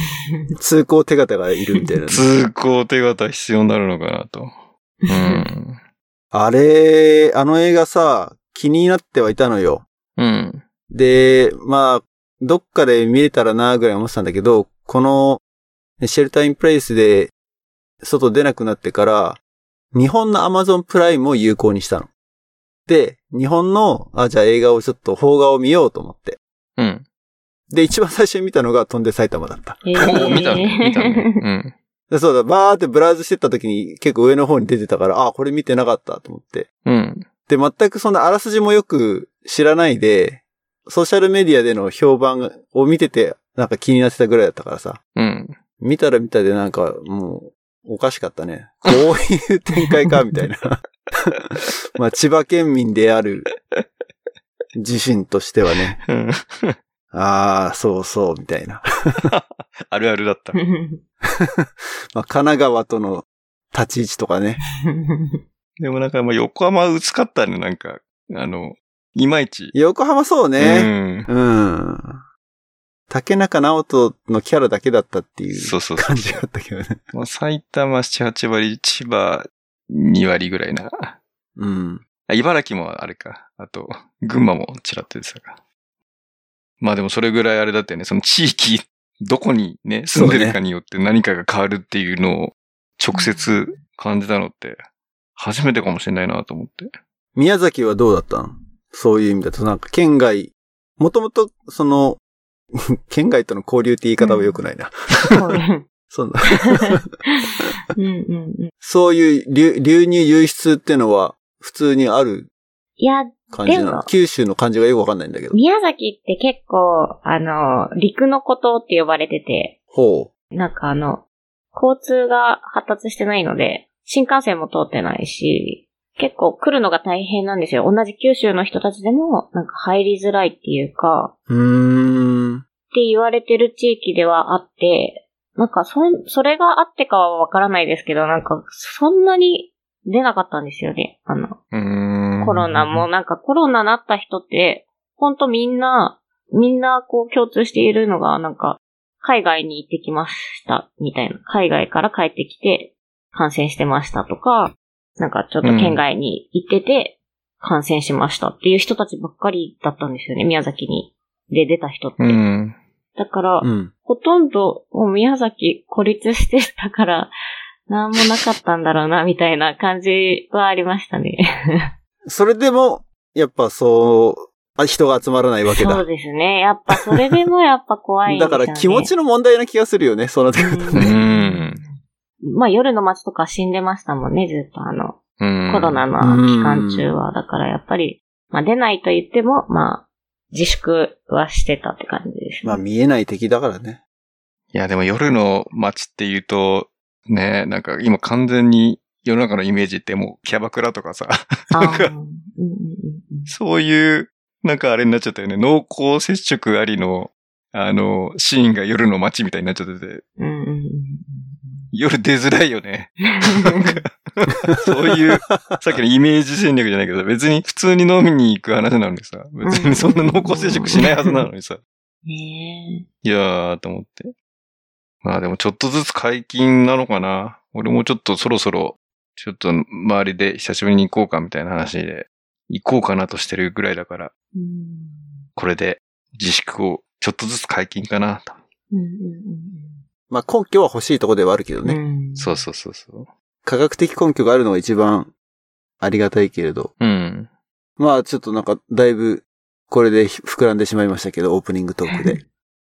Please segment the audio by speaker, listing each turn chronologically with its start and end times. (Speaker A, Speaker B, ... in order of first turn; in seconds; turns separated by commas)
Speaker A: 0.3-0.5, Speaker B: 0.6-2.2, Speaker C: 2.1-4.5, Speaker A: 5.0-5.5, Speaker C: 5.1-5.8, Speaker B: 6.3-9.8, Speaker C: 10.2-10.6, Speaker B: 10.9-15.4, Speaker B: 16.0-17.3, Speaker B: 18.0-19.4, Speaker B: 19.9-22.1, Speaker B: 22.9-26.4, Speaker C: 26.8-27.1, Speaker B: 27.7-30.5, Speaker A: 29.9-31.4, Speaker C: 30.0-31.7, Speaker B: 32.1-36.7, Speaker C: 36.9-37.3, Speaker B: 37.5-45.0, Speaker C: 45.2-45.6, Speaker B: 45.8-53.5, Speaker B: 54.8-56.0, Speaker C: 56.0-56.8, Speaker B: 57.1-59.3, Speaker C: 59.3-60.6, Speaker A: 60.5-61.0, Speaker B: 61.4-64.6, Speaker A: 64.8-65.4, Speaker C: 65.8-69.7, Speaker B: 69.7-72.2, Speaker C: 70.6-71.3, Speaker B: 73.1-77.0, Speaker C: 75.5-76.4, Speaker C: 77.1-81.2, Speaker B: 81.6-82.0, Speaker C: 82.3-85.6, Speaker C: 86.8-94.8, Speaker B: 90.1-90.6, Speaker A: 93.1-93.8, Speaker C: 95.4-96.9, Speaker B: 97.3-102.2, Speaker B: 102.8-105.3, Speaker A: 104.2-104.6, Speaker A: 105.3-105.8, Speaker B: 106.1-107.0, Speaker A: 106.7-108.7, Speaker B: 108.8-112.5, Speaker A: 113.0-114.1, Speaker B: 113.5-115.6, Speaker A: 115.5-119.8, Speaker B: 119.9-120.3, Speaker A: 120.5-131.3, Speaker B: 131.5-132.6, Speaker A: 132.9-141.6, Speaker C: 141.7-143.1, Speaker A: 142.4-162.4, Speaker C: 155.6-156.0, Speaker C: 162.2-162.8, Speaker A: 163.2-167.3, Speaker B: 163.6-163.9, Speaker A: 167.9-171.9, Speaker B: 172.3-176.1, Speaker A: 175.7-179.1, Speaker B: 178.3-181.2, Speaker A: 180.6-181.8, Speaker C: 181.0-181.8, Speaker A: 182.4-192.8, Speaker C: 185.4-186.1, Speaker B: 186.2-187.1, Speaker B: 192.6-194.0, Speaker C: 194.7-202.1, Speaker A: 201.7-203.5, Speaker C: 203.5-210.2, Speaker A: 210.4-211.8, Speaker C: 211.9-221.8, Speaker A: 213.3-214.0, Speaker B: 215.1-215.8, Speaker A: 219.7-221.4, Speaker A: 222.3-223.1, Speaker C: 223.2-224.3, Speaker C: 225.2-234.3, Speaker A: 234.6-235.5, Speaker C: 235.6-238.6, Speaker A: 238.9-240.0, Speaker B: 240.3-242.0, Speaker A: 241.8-242.6, Speaker C: 242.4-243.3, Speaker B: 243.7-245.3, Speaker B: 246.0-246.9, Speaker C: 247.0-247.5, Speaker B: 248.0-252.4, Speaker A: 252.1-252.4